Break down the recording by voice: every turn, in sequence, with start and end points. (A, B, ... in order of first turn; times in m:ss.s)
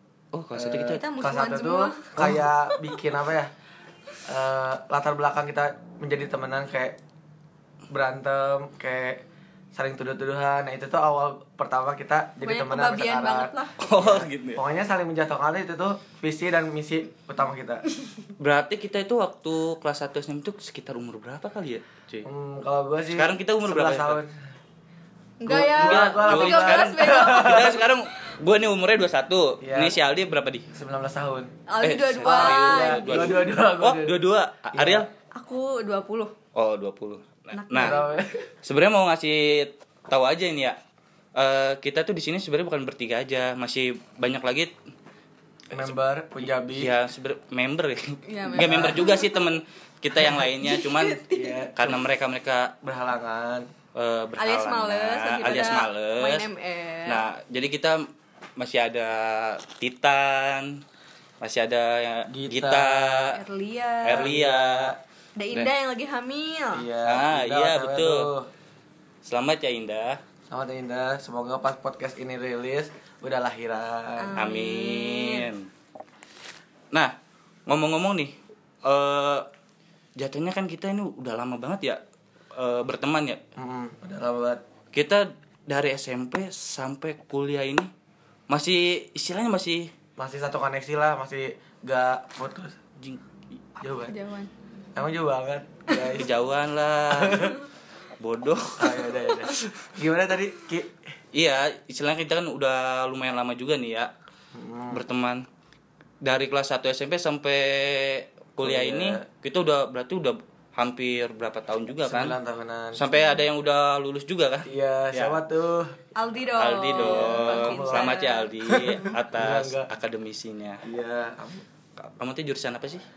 0:00.3-0:01.0 A
0:00.5-0:03.5 B
0:00.9-0:02.8 C
0:04.2-0:07.0 B
0:07.9-0:09.2 B
0:09.7-0:17.8 B
0:12.4-0:13.7 C
0:13.8-0:14.6 A
0:18.4-0:22.3 A
0:22.2-0:24.3 B
0:23.1-0:24.2 A
0:25.4-0:27.8 C
0:25.4-0:27.8 B
0:25.7-0:30.6 A
0:29.6-0:30.0 B
0:30.7-0:31.5 B
0:31.7-0:33.4 C
0:31.8-0:35.1 A
0:32.2-0:34.2 B
0:34.7-0:35.1 B
0:35.3-0:36.3 C
0:36.5-0:38.0 A
0:37.5-0:38.1 C
0:37.7-0:38.5 B
0:38.6-0:40.8 A
0:41.3-0:44.7 A
0:45.7-0:46.9 B
0:46.6-0:51.2 A
0:48.2-0:49.4 C
0:48.5-0:49.0 B
0:50.3-0:51.6 C
0:51.3-0:52.0 B
0:51.8-0:52.7 A
0:52.8-0:53.7 B
0:53.9-0:56.4 A
0:54.4-0:57.2 C
0:57.0-1:00.8 A
1:01.4-1:03.4 A
1:02.3-1:03.3 B
1:03.3-1:04.3 C
1:04.0-1:04.9 A
1:04.0-1:05.0 B
1:05.4-1:06.9 C
1:06.7-1:08.5 B
1:07.0-1:08.3 A
1:09.2-1:10.2 A
1:10.5-1:14.3 B
1:14.2-1:15.5 C
1:14.4-1:15.7 A
1:17.7-1:18.3 A
1:18.8-1:19.5 A
1:20.2-1:22.0 A
1:22.5-1:23.4 A
1:23.6-1:24.6 B
1:24.9-1:27.9 A
1:28.5-1:29.9 A
1:30.2-1:32.8 B
1:33.8-1:34.1 B
1:34.0-1:34.5 C
1:34.9-1:36.3 B
1:36.0-1:37.6 A
1:37.1-1:37.6 B
1:38.2-1:39.6 A
1:38.8-1:41.0 B
1:41.3-1:44.1 A
1:44.5-1:45.0 B
1:44.9-1:45.4 A
1:46.2-1:52.4 A
1:48.6-1:49.2 B
1:52.1-1:53.0 B
1:52.9-1:55.4 A
1:54.7-1:55.9 B
1:56.2-1:58.9 C
1:56.6-2:00.8 A
1:56.9-1:59.9 B
2:00.8-2:01.6 B
2:02.0-2:03.0 A